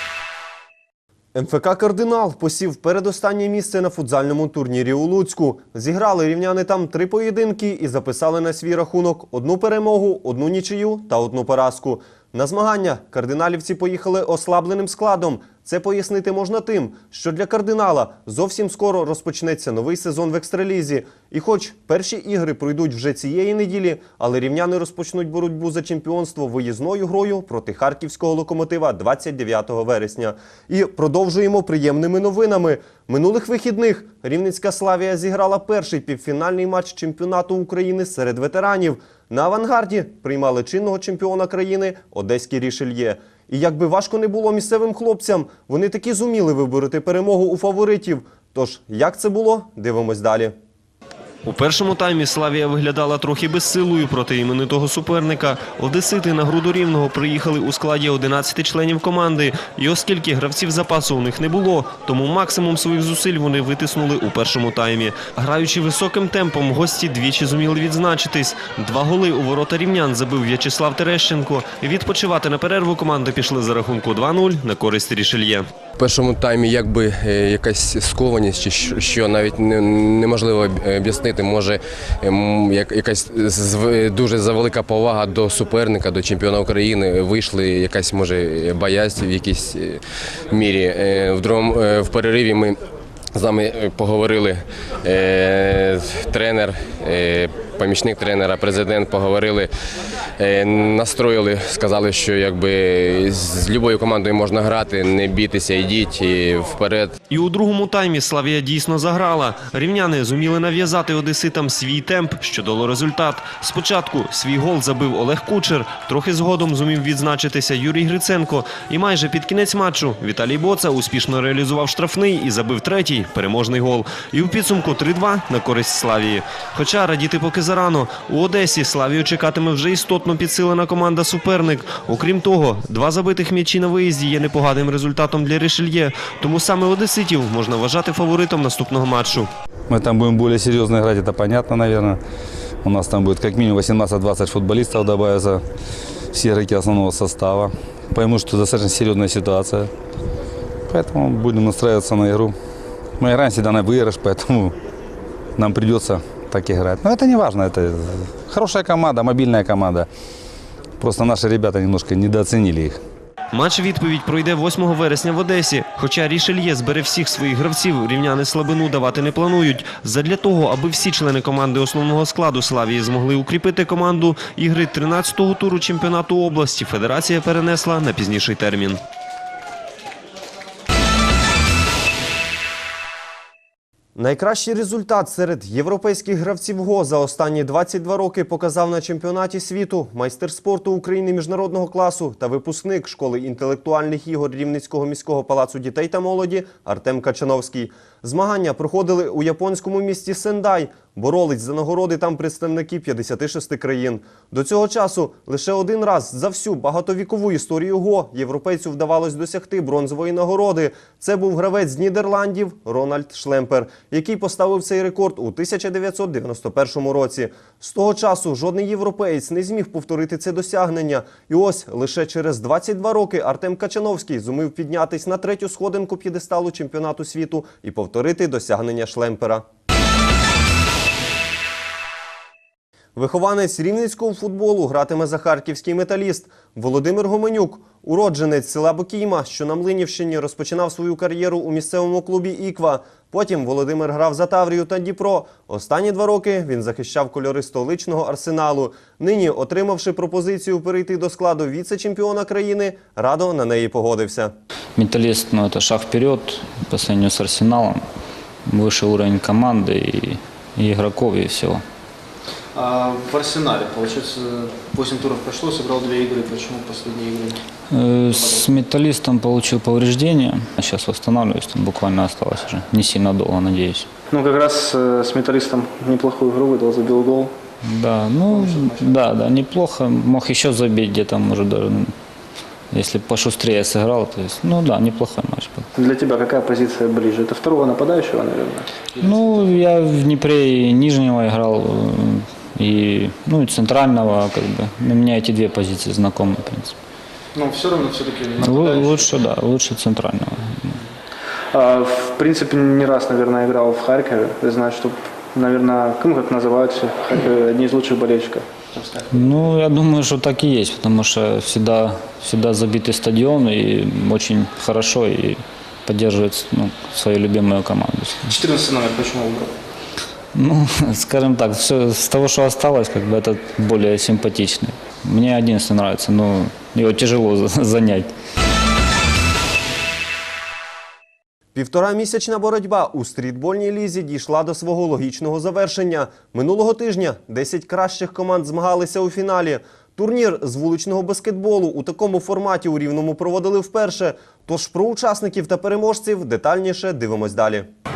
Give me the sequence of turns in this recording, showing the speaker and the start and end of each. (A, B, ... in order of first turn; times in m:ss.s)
0:01.3-0:50.5 A
0:51.4-1:15.7 A
1:16.0-1:32.8 B
1:33.3-1:39.7 B
1:40.4-1:47.1 B
1:47.3-2:19.5 A
2:19.9-2:22.2 C
2:22.8-2:25.6 C
2:26.3-2:29.9 C
2:30.9-2:32.5 C
2:33.2-2:34.8 C
2:35.6-2:40.1 C
2:41.0-2:43.0 C
2:43.5-2:59.0 A
3:04.2-3:49.6 A
3:53.2-4:14.5 A
4:15.0-4:18.0 D
4:18.7-4:21.8 D
4:22.8-4:27.6 E
4:27.9-4:34.1 D
4:28.3-4:28.6 E
4:34.3-4:37.5 E
4:37.8-4:42.1 D
4:38.5-4:39.1 E
4:42.9-4:45.9 D
4:46.0-4:49.6 E
4:49.2-4:57.0 D
4:57.5-4:59.3 E
4:58.6-5:01.0 D
5:01.7-5:09.4 E
5:09.3-5:18.5 D
5:18.5-5:19.8 E
5:20.5-5:28.3 D
5:31.7-5:47.9 A